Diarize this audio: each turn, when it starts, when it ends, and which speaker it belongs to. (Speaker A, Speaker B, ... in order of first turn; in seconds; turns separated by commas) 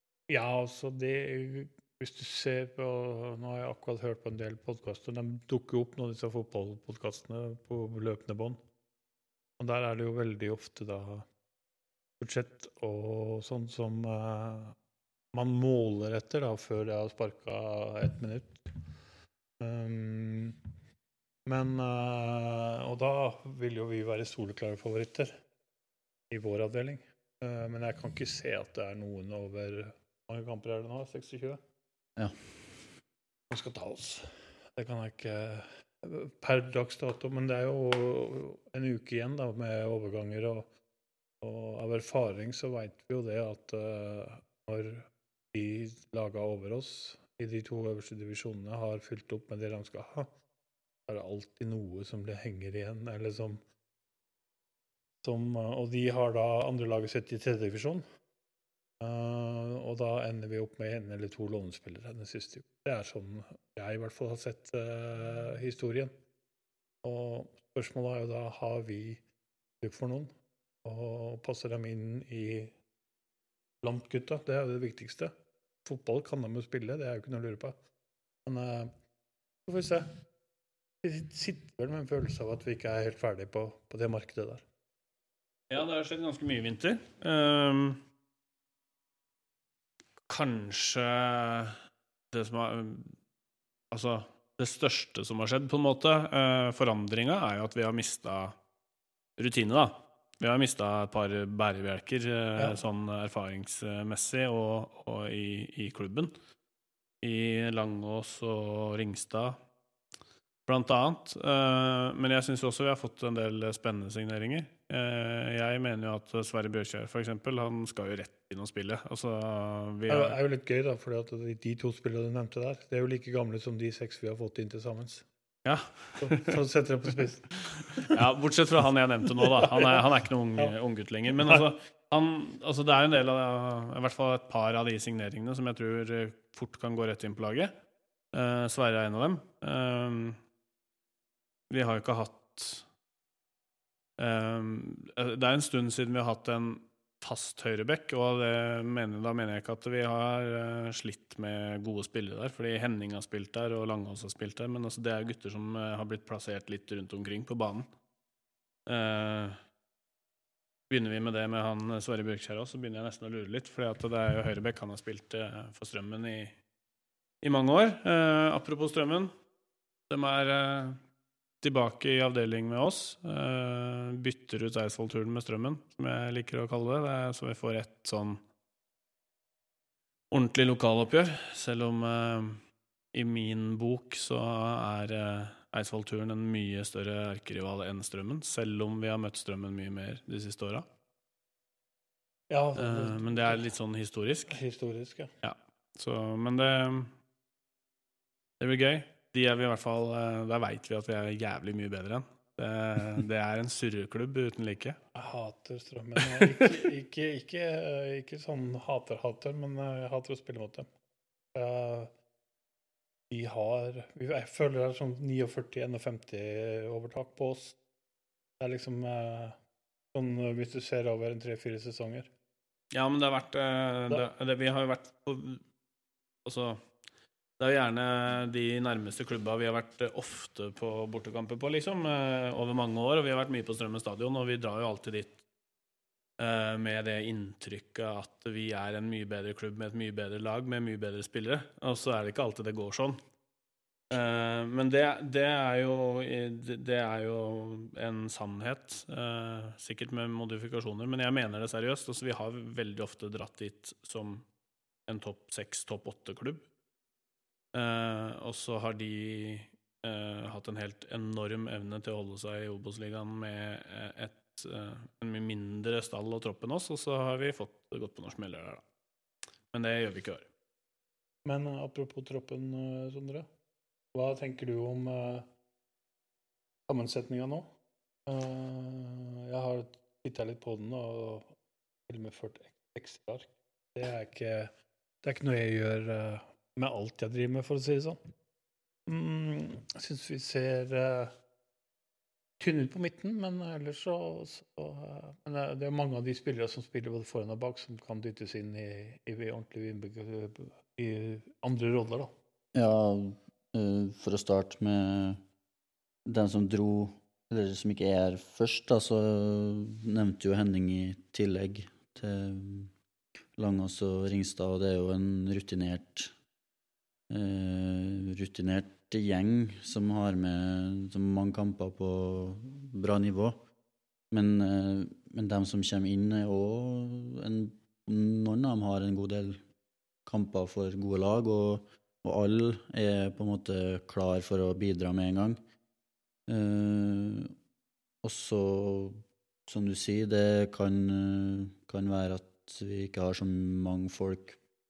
Speaker A: 0.3-8.6, Speaker A: 9.6-11.2, Speaker A: 12.2-14.8, Speaker A: 15.3-18.7, Speaker A: 19.6-20.6, Speaker A: 21.4-25.4, Speaker A: 26.3-31.6, Speaker A: 33.5-40.7, Speaker A: 41.4-50.3, Speaker A: 51.1-53.6, Speaker A: 55.2-58.0, Speaker A: 59.0-66.1, Speaker A: 67.0-69.2, Speaker A: 69.8-70.3, Speaker A: 70.8-72.7, Speaker A: 73.8-75.3, Speaker A: 75.8-77.8, Speaker A: 78.5-78.9, Speaker A: 79.7-80.1, Speaker A: 81.0-84.6, Speaker B: 85.7-88.0, Speaker B: 90.3-91.8, Speaker B: 92.3-93.2, Speaker B: 93.9-98.5, Speaker B: 99.4-106.3, Speaker B: 107.2-109.6, Speaker B: 110.7-120.4, Speaker A: 120.1-125.2, Speaker B: 125.6-126.6, Speaker A: 126.2-128.2, Speaker B: 128.0-137.7, Speaker A: 129.3-130.0, Speaker A: 131.4-131.6, Speaker B: 138.3-140.4, Speaker B: 141.7-142.8, Speaker B: 144.2-157.9, Speaker B: 158.8-159.6, Speaker B: 160.9-166.6, Speaker B: 167.4-169.3, Speaker B: 170.1-171.0, Speaker B: 171.6-178.4, Speaker B: 180.3-182.6, Speaker B: 183.1-190.8, Speaker A: 192.5-193.7, Speaker B: 192.8-194.6, Speaker A: 194.5-195.3, Speaker B: 195.4-197.1, Speaker B: 198.6-205.0, Speaker A: 205.1-210.9, Speaker B: 206.2-206.8, Speaker A: 211.5-212.1, Speaker A: 213.3-217.8, Speaker A: 218.6-219.6, Speaker A: 220.1-222.3, Speaker B: 222.9-225.6, Speaker B: 226.4-226.8, Speaker B: 227.6-235.4, Speaker B: 236.4-243.2, Speaker B: 244.1-254.4, Speaker B: 255.1-256.6, Speaker B: 257.7-268.8, Speaker B: 269.7-270.5, Speaker A: 271.4-273.5, Speaker A: 274.1-275.5, Speaker A: 276.9-277.7, Speaker A: 278.3-281.5, Speaker A: 282.1-288.2, Speaker A: 289.1-291.3, Speaker A: 292.6-302.3, Speaker C: 302.7-305.4, Speaker C: 306.2-312.9, Speaker C: 313.6-316.3, Speaker C: 317.3-323.6, Speaker C: 324.3-329.6, Speaker C: 330.2-335.6, Speaker C: 336.5-337.5, Speaker C: 338.2-344.6